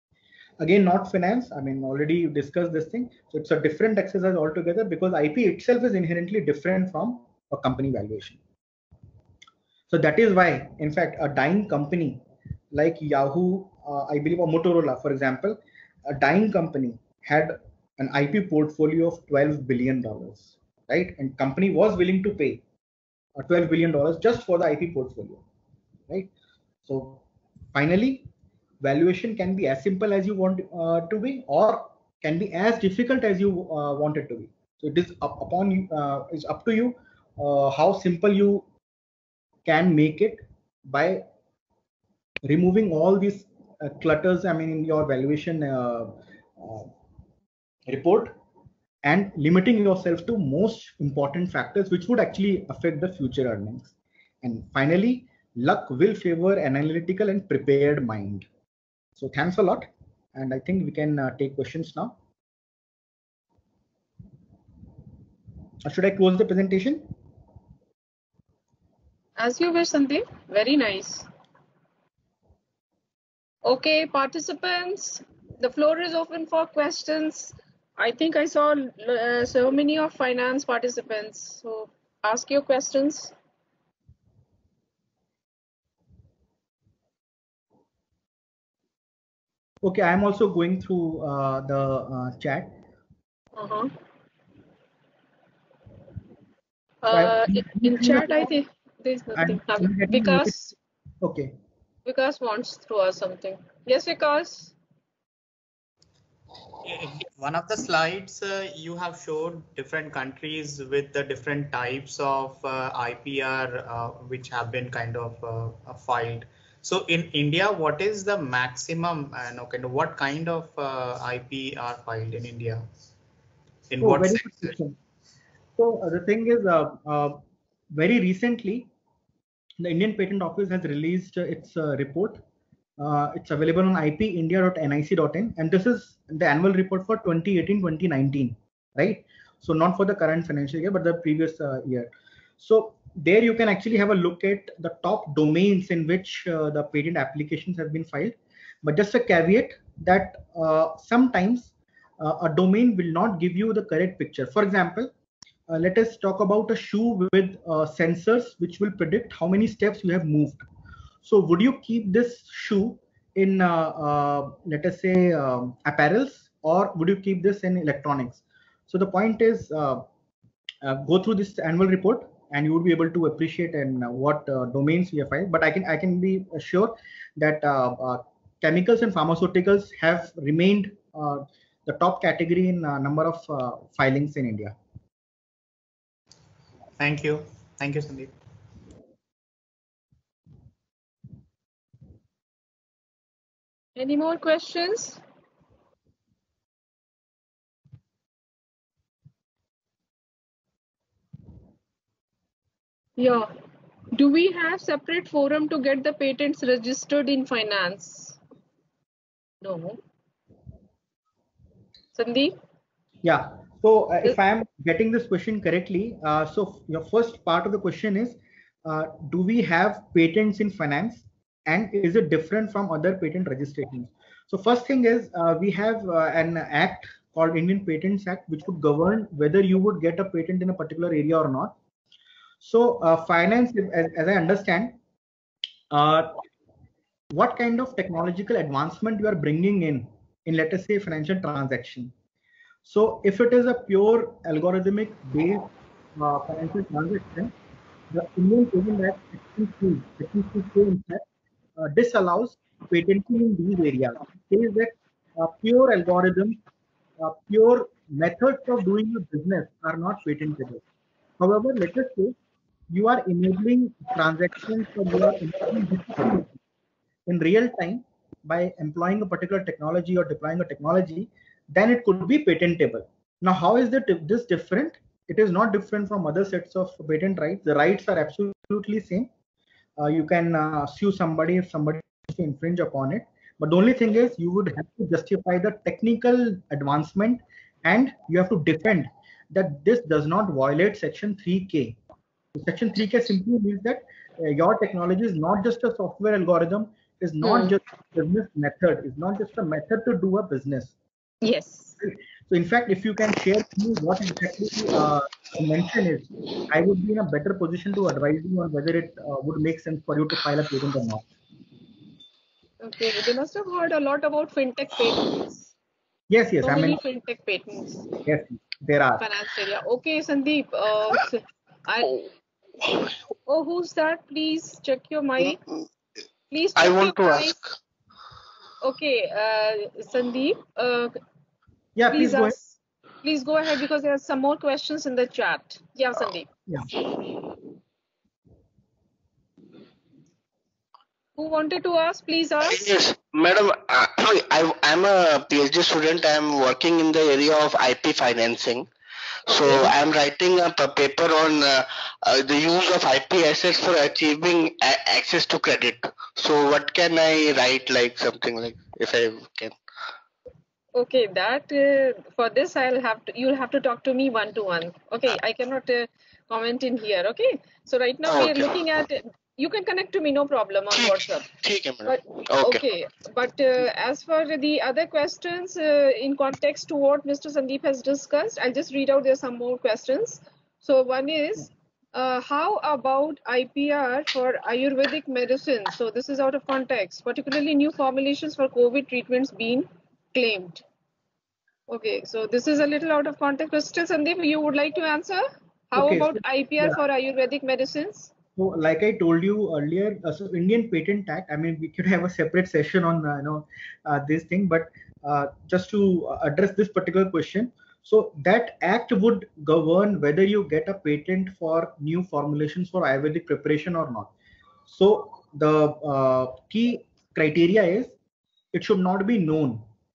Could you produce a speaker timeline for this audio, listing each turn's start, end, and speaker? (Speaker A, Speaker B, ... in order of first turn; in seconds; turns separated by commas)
Speaker A: 0.6-8.4, Speaker A: 9.9-22.6, Speaker A: 23.4-25.4, Speaker A: 26.9-27.2, Speaker A: 27.7-28.3, Speaker A: 28.8-38.6, Speaker A: 39.6-41.3, Speaker A: 42.5-46.9, Speaker A: 47.9-48.3, Speaker A: 49.0-58.5, Speaker A: 59.2-62.2, Speaker A: 65.8-67.0, Speaker B: 69.4-71.3, Speaker B: 73.7-83.3, Speaker A: 89.8-92.8, Speaker B: 93.6-93.9, Speaker B: 97.0-100.8, Speaker A: 97.1-98.4, Speaker A: 99.3-100.6, Speaker A: 101.2-101.5, Speaker B: 102.0-104.8, Speaker C: 106.8-122.9, Speaker C: 123.9-124.7, Speaker A: 124.0-125.0, Speaker A: 125.8-127.4, Speaker A: 127.9-128.9, Speaker A: 129.8-132.4, Speaker A: 133.0-155.1, Speaker A: 155.7-160.6, Speaker A: 161.2-170.0, Speaker A: 170.8-184.8, Speaker C: 187.0-188.3, Speaker B: 194.0-195.2, Speaker B: 203.2-203.5, Speaker B: 204.1-208.4, Speaker B: 209.6-210.0, Speaker B: 212.2-212.6, Speaker A: 213.2-231.8, Speaker A: 232.6-235.0, Speaker A: 235.9-236.4, Speaker A: 237.3-242.1, Speaker A: 242.8-247.5, Speaker A: 248.1-251.2, Speaker A: 251.8-256.6, Speaker A: 257.2-260.8, Speaker A: 261.4-262.4, Speaker A: 262.9-266.6, Speaker A: 267.3-279.3, Speaker A: 280.0-292.0, Speaker A: 292.6-300.9, Speaker B: 297.4-297.8, Speaker B: 301.4-302.0, Speaker A: 302.0-311.3, Speaker B: 312.8-315.7, Speaker A: 316.3-317.0, Speaker B: 316.6-318.1, Speaker A: 318.2-319.2, Speaker B: 319.2-322.3, Speaker B: 323.5-325.6, Speaker B: 326.5-327.6, Speaker D: 326.8-327.8, Speaker B: 328.8-331.1, Speaker A: 332.0-332.6, Speaker B: 332.1-336.5, Speaker B: 341.4-342.9, Speaker D: 342.6-348.9, Speaker D: 349.5-359.8, Speaker B: 349.7-349.9, Speaker B: 360.9-371.5, Speaker D: 368.3-368.7, Speaker D: 371.6-372.8, Speaker B: 372.0-390.8, Speaker B: 391.9-398.3, Speaker A: 396.0-397.0, Speaker A: 398.6-414.3, Speaker A: 414.9-418.1, Speaker A: 418.7-419.8